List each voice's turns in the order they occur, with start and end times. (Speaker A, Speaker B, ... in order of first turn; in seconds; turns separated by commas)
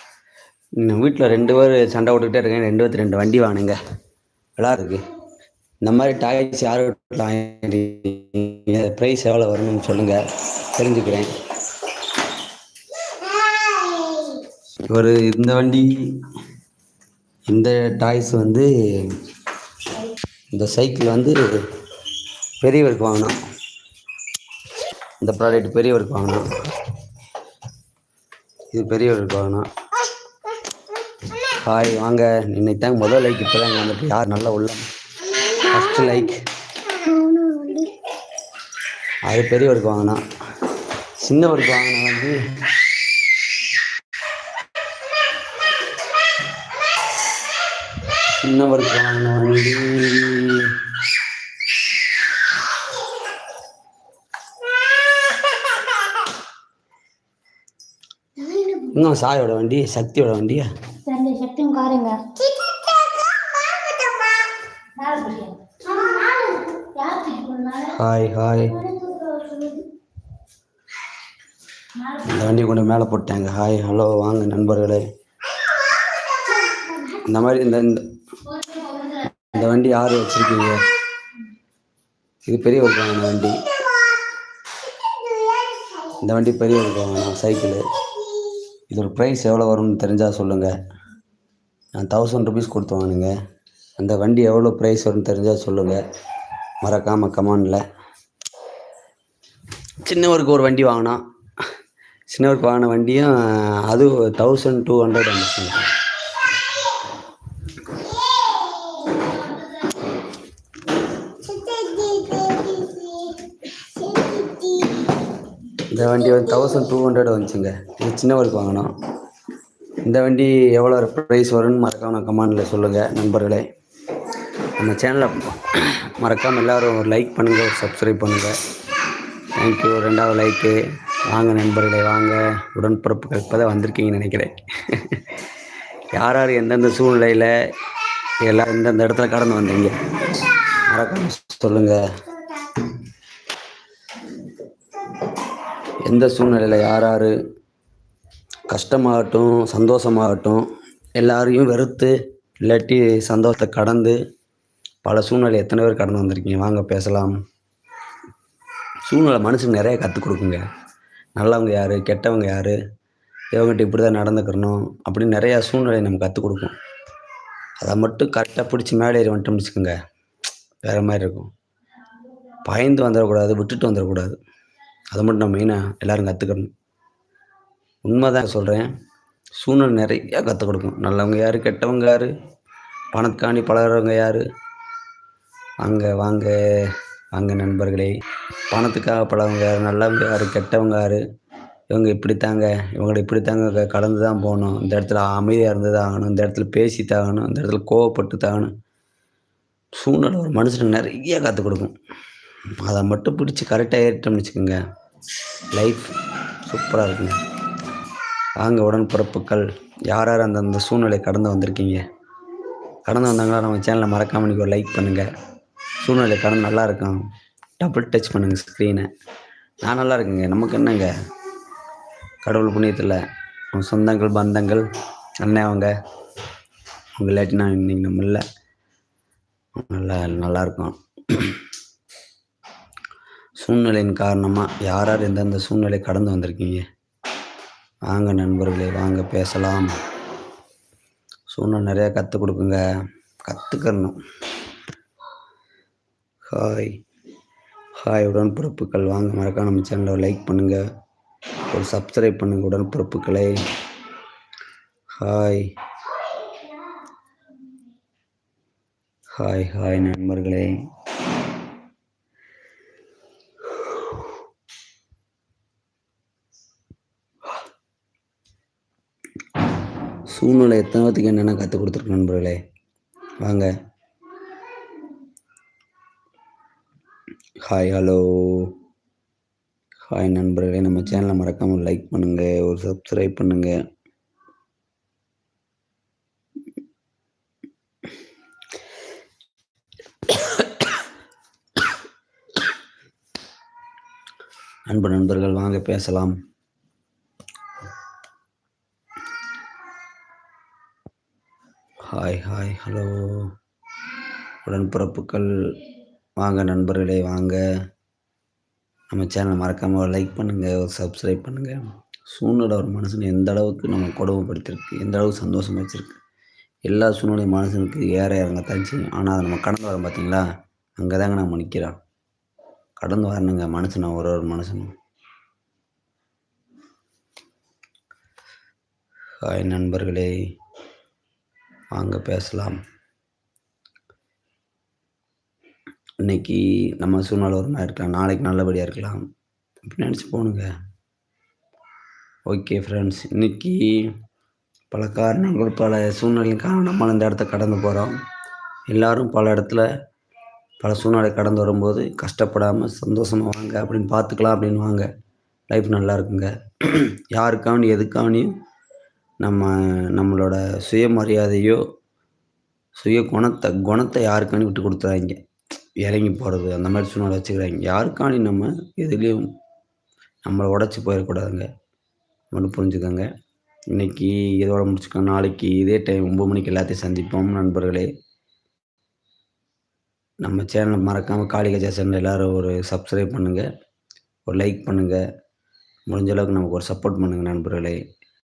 Speaker A: 0.8-3.8, Speaker A: 4.6-5.1, Speaker A: 5.8-11.3, Speaker B: 13.4-14.4, Speaker A: 14.9-16.0, Speaker A: 17.5-19.2, Speaker A: 20.5-21.4, Speaker A: 22.6-23.4, Speaker A: 25.2-26.9, Speaker A: 28.7-29.6, Speaker A: 31.4-34.9, Speaker A: 35.6-36.4, Speaker B: 36.9-38.0, Speaker A: 39.2-40.2, Speaker A: 41.2-42.4, Speaker A: 48.2-50.8, Speaker B: 55.5-56.0, Speaker B: 58.4-59.0, Speaker A: 58.9-60.7, Speaker B: 61.0-68.0, Speaker A: 67.9-68.8, Speaker B: 68.7-69.9, Speaker B: 71.9-72.4, Speaker A: 72.2-75.0, Speaker B: 76.1-77.2, Speaker A: 77.2-78.0, Speaker B: 78.5-79.5, Speaker A: 79.4-80.8, Speaker A: 82.5-83.7, Speaker B: 85.2-86.0, Speaker A: 86.1-87.8, Speaker A: 88.9-90.7, Speaker A: 92.0-93.3, Speaker A: 94.0-96.0, Speaker A: 96.8-97.8, Speaker A: 100.0-101.2, Speaker A: 102.3-105.9, Speaker B: 108.3-110.1, Speaker B: 111.4-115.1, Speaker A: 115.8-118.9, Speaker A: 120.0-123.6, Speaker A: 124.8-128.6, Speaker A: 129.6-135.4, Speaker A: 136.1-137.5, Speaker A: 138.4-142.0, Speaker A: 146.0-147.3, Speaker A: 148.7-150.6, Speaker A: 151.2-154.2, Speaker A: 155.0-157.3, Speaker A: 159.1-160.6, Speaker A: 161.4-162.8, Speaker A: 163.5-166.7, Speaker A: 167.8-169.9, Speaker A: 170.8-171.5, Speaker A: 172.6-174.4, Speaker A: 175.1-176.7, Speaker A: 178.0-178.9, Speaker A: 179.6-182.3, Speaker A: 183.1-184.4, Speaker A: 185.8-188.1, Speaker A: 188.7-191.2, Speaker A: 191.9-198.7, Speaker A: 200.0-201.9, Speaker A: 202.8-204.8, Speaker A: 205.7-206.1, Speaker A: 206.7-207.4, Speaker A: 208.6-212.0, Speaker A: 213.1-215.3, Speaker A: 216.0-217.2, Speaker A: 217.8-219.1, Speaker A: 219.8-221.1, Speaker A: 222.4-223.2, Speaker A: 223.7-224.9, Speaker A: 225.4-225.9, Speaker A: 227.2-228.4, Speaker A: 229.8-231.6, Speaker A: 233.6-236.8, Speaker A: 238.1-239.9, Speaker A: 241.5-242.8, Speaker A: 243.5-244.2, Speaker A: 246.5-247.0, Speaker A: 248.0-250.8, Speaker A: 251.7-253.6, Speaker A: 255.2-255.7, Speaker A: 259.3-260.7, Speaker A: 270.3-272.6, Speaker A: 273.4-273.7, Speaker A: 277.6-278.8, Speaker A: 280.1-283.8, Speaker A: 290.4-290.6, Speaker A: 294.9-296.3, Speaker A: 302.1-303.5, Speaker A: 304.6-305.7, Speaker A: 306.4-307.6, Speaker A: 309.1-316.2, Speaker A: 316.9-320.4, Speaker A: 321.0-322.0, Speaker A: 323.0-324.9, Speaker A: 329.4-330.3, Speaker A: 331.9-332.7, Speaker A: 336.2-339.2, Speaker A: 339.9-340.7, Speaker A: 342.5-343.9, Speaker A: 344.9-348.1, Speaker A: 348.9-349.9, Speaker A: 350.8-355.1, Speaker A: 355.7-358.5, Speaker A: 359.4-361.8, Speaker A: 363.0-365.4, Speaker A: 366.0-369.5, Speaker A: 370.4-371.7, Speaker A: 372.5-373.2, Speaker A: 373.9-378.1, Speaker A: 380.4-383.6, Speaker A: 384.5-385.2, Speaker A: 386.1-388.0